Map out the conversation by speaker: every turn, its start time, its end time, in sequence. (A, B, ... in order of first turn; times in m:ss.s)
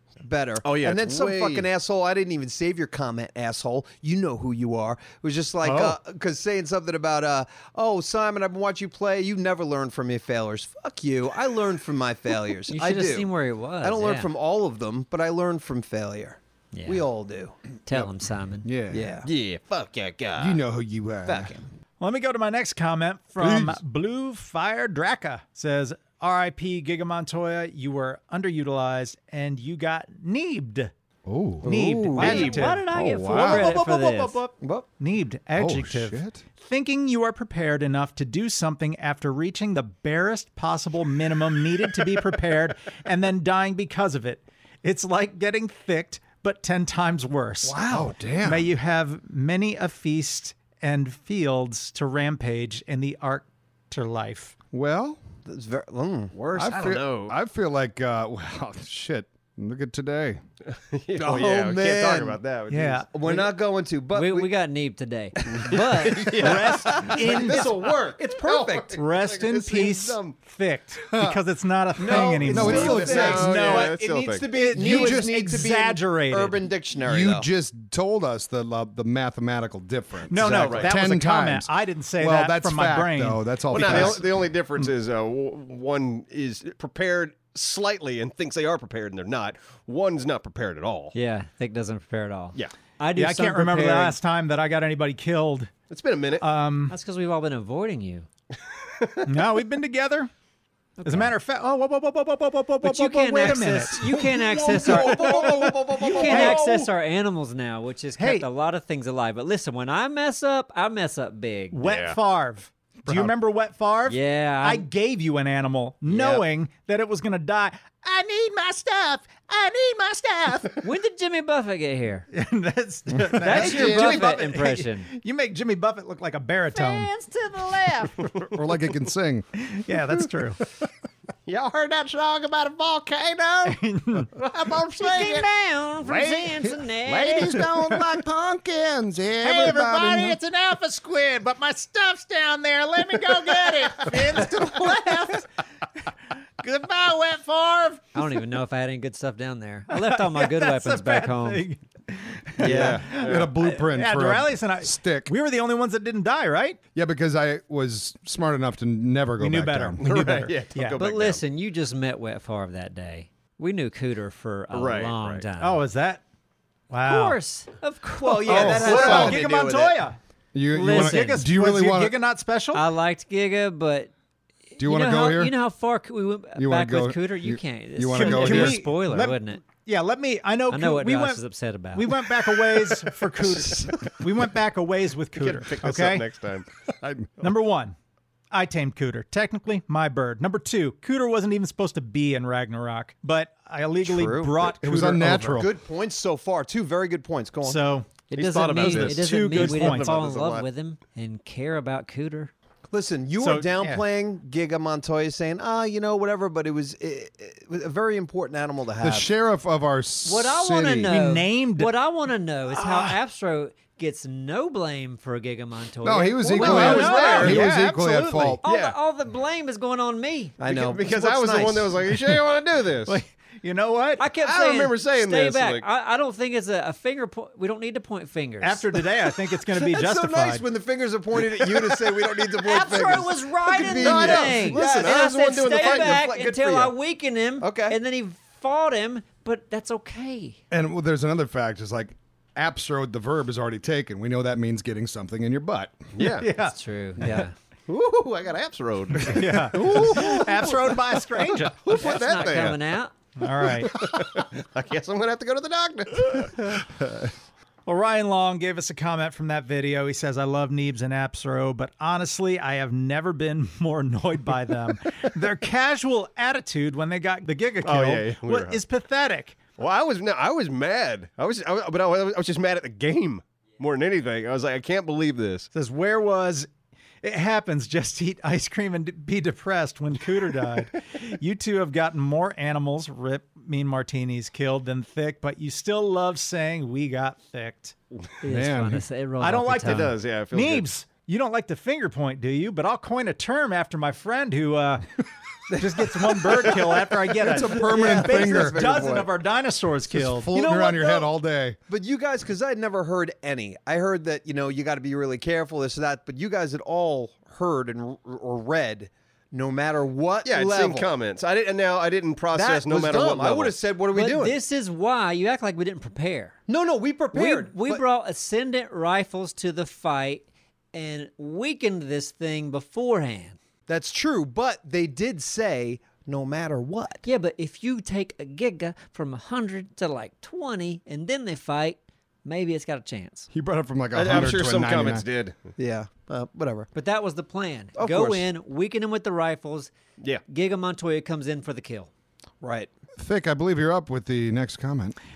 0:00.2-0:13.3 A
0:00.6-0:01.7 B
0:05.6-0:05.9 B
0:12.7-0:14.3 C
0:13.8-0:17.6 A
0:16.7-0:17.0 C
0:17.8-0:18.7 C
0:18.6-0:19.1 D
0:18.9-0:19.3 A
0:19.2-0:20.6 B
0:20.4-0:21.5 D
0:21.2-0:21.6 A
0:22.0-0:30.9 E
0:23.4-0:23.8 D
0:31.2-0:33.7 D
0:31.6-0:47.9 E
0:31.6-0:32.6 A
0:32.1-0:34.4 C
0:34.6-0:34.9 A
0:35.5-0:36.4 D
0:47.6-0:48.1 A
0:47.9-0:48.7 D
0:48.4-0:54.5 E
0:54.7-0:55.2 D
0:55.4-0:56.3 A
0:56.3-0:57.3 B
0:56.5-1:00.4 D
1:00.7-1:03.5 B
1:01.2-1:02.4 A
1:02.7-1:03.1 E
1:03.1-1:04.5 A
1:04.1-1:06.4 C
1:05.4-1:09.0 A
1:05.5-1:10.4 B
1:06.3-1:07.8 E
1:08.9-1:16.6 E
1:11.1-1:11.4 D
1:12.0-1:17.5 A
1:12.0-1:13.6 D
1:12.6-1:14.5 B
1:14.8-1:15.4 D
1:17.0-1:24.3 D
1:20.3-1:24.2 E
1:20.4-1:20.8 A
1:20.4-1:20.9 B
1:23.7-1:31.1 B
1:31.1-1:34.2 C
1:33.2-1:35.7 E
1:35.9-1:36.4 B
1:36.4-1:36.9 E
1:36.9-1:38.3 C
1:39.2-1:40.3 E
1:41.0-1:41.3 C
1:41.0-1:46.9 E
1:42.8-1:51.8 C
1:44.7-1:46.6 A
1:48.2-1:48.4 E
1:51.7-2:00.8 E
1:51.8-1:52.2 B
1:53.0-1:53.3 D
1:54.1-1:54.8 C
1:56.1-1:56.4 C
2:00.8-2:02.3 C
2:02.3-2:07.1 E
2:03.4-2:05.1 C
2:03.4-2:04.3 D
2:06.7-2:08.3 C
2:08.4-2:10.3 D
2:09.6-2:10.6 E
2:11.4-2:13.8 D
2:13.6-2:14.3 E
2:14.3-2:15.5 D
2:15.0-2:17.6 C
2:16.0-2:20.4 D
2:17.7-2:18.1 E
2:19.4-2:28.1 E
2:23.4-2:24.4 D
2:28.1-2:31.6 C
2:29.9-2:36.8 E
2:32.6-2:33.5 B
2:32.6-2:35.3 D
2:36.9-2:40.4 D
2:39.4-2:41.0 E
2:40.0-2:41.4 B
2:41.0-2:45.8 C
2:44.7-2:45.4 B
2:45.6-2:46.2 E
2:46.9-2:47.4 E
2:47.0-2:49.4 C
2:48.2-2:50.2 E
2:48.4-2:50.0 A
2:48.5-2:49.3 D
2:50.5-2:52.2 D
2:50.7-2:51.5 C
2:50.8-2:52.8 E
2:52.7-2:54.1 C
2:54.7-2:59.6 C
2:54.8-2:55.5 D
2:56.6-2:58.8 D
2:58.1-3:01.4 E
3:00.7-3:02.1 C
3:01.9-3:06.3 E
3:05.3-3:06.7 B
3:07.0-3:07.3 D
3:07.4-3:07.9 E
3:08.5-3:15.4 E
3:14.0-3:17.8 A
3:14.6-3:15.7 D
3:17.6-3:20.2 E
3:18.3-3:22.5 C
3:18.3-3:20.6 B
3:22.9-3:29.3 A
3:23.4-3:24.0 E
3:29.0-3:31.1 D
3:30.2-3:37.7 C
3:31.0-3:31.9 E
3:36.0-3:38.6 D
3:36.6-3:38.6 E
3:36.7-3:37.6 B
3:38.6-3:40.6 C
3:38.6-3:39.0 B
3:40.6-3:42.0 A
3:40.6-3:43.2 B
3:43.0-3:44.2 E
3:44.2-3:48.9 C
3:44.4-3:45.8 B
3:48.6-3:50.7 E
3:49.7-3:56.9 A
3:52.6-4:00.6 C
3:53.8-3:54.4 D
3:54.0-3:56.2 B
3:57.6-3:58.0 A
4:00.7-4:06.1 D
4:06.1-4:06.5 B
4:06.2-4:06.8 E
4:06.6-4:07.5 C
4:07.9-4:12.9 B
4:09.2-4:11.9 E
4:09.8-4:10.2 D
4:11.9-4:13.1 C
4:13.4-4:14.0 E
4:13.6-4:16.8 B
4:17.8-4:29.6 E
4:27.8-4:28.8 B
4:29.8-4:35.7 B
4:35.7-4:36.7 E
4:37.2-4:47.9 E
4:48.4-4:50.1 C
4:48.4-4:49.0 D
4:49.4-4:55.0 E
4:49.8-4:50.8 B
4:55.7-5:00.5 E
4:55.8-4:59.3 A
4:57.4-4:59.2 D
5:00.1-5:01.8 D
5:00.5-5:01.3 A
5:01.9-5:11.1 A
5:10.4-5:13.8 B
5:12.5-5:14.6 A
5:14.1-5:16.6 C
5:16.7-5:18.0 A
5:17.3-5:23.6 C
5:23.9-5:27.2 A
5:27.2-5:33.5 C
5:33.5-5:35.2 D
5:34.1-5:35.7 B
5:35.8-5:36.9 A
5:36.9-5:39.9 C
5:38.0-5:38.4 A
5:40.5-5:42.1 C
5:42.6-5:42.9 A
5:43.2-5:45.2 D